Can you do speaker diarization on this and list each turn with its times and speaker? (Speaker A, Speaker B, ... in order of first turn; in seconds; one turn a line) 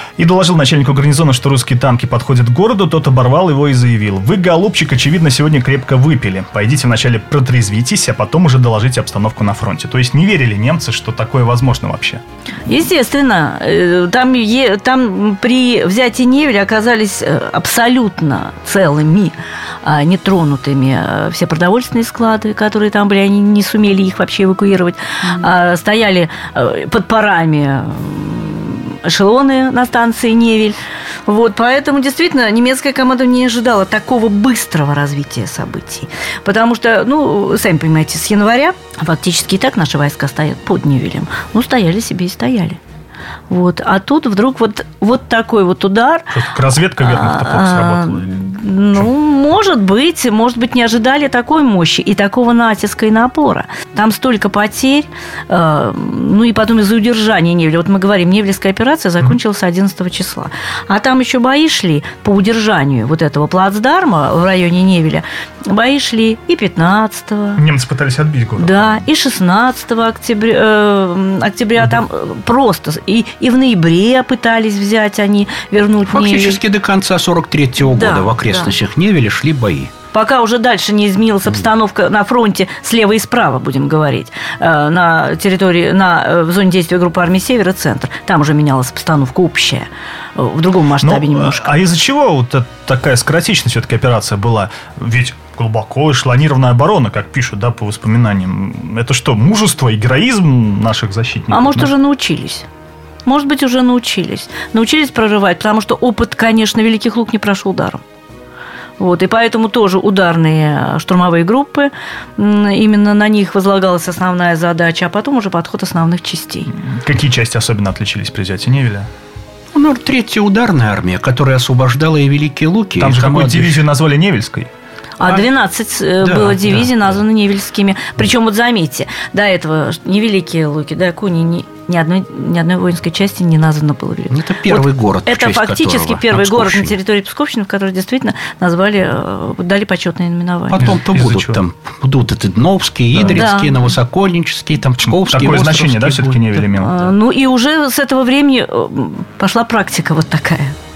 Speaker A: 0.2-12.2
Speaker B: 12.7-42.8
Speaker B: 43.5-46.3
Speaker A: 46.3-48.3
Speaker B: 46.9-67.6
Speaker A: 67.6-69.0
Speaker B: 68.6-76.6
Speaker C: 76.1-79.9
Speaker B: 77.9-78.7
Speaker B: 80.1-91.7
Speaker A: 91.0-101.9
Speaker B: 101.5-102.7
Speaker B: 103.2-108.0
Speaker B: 109.0-116.7
Speaker A: 116.7-119.1
Speaker C: 119.7-123.8
Speaker A: 123.0-124.7
Speaker B: 125.2-140.9
Speaker C: 126.2-126.9
Speaker C: 134.3-136.9
Speaker C: 140.7-147.1
Speaker A: 140.8-141.6
Speaker A: 143.1-143.4
Speaker B: 143.3-143.9
Speaker A: 145.2-146.9
Speaker B: 146.8-150.7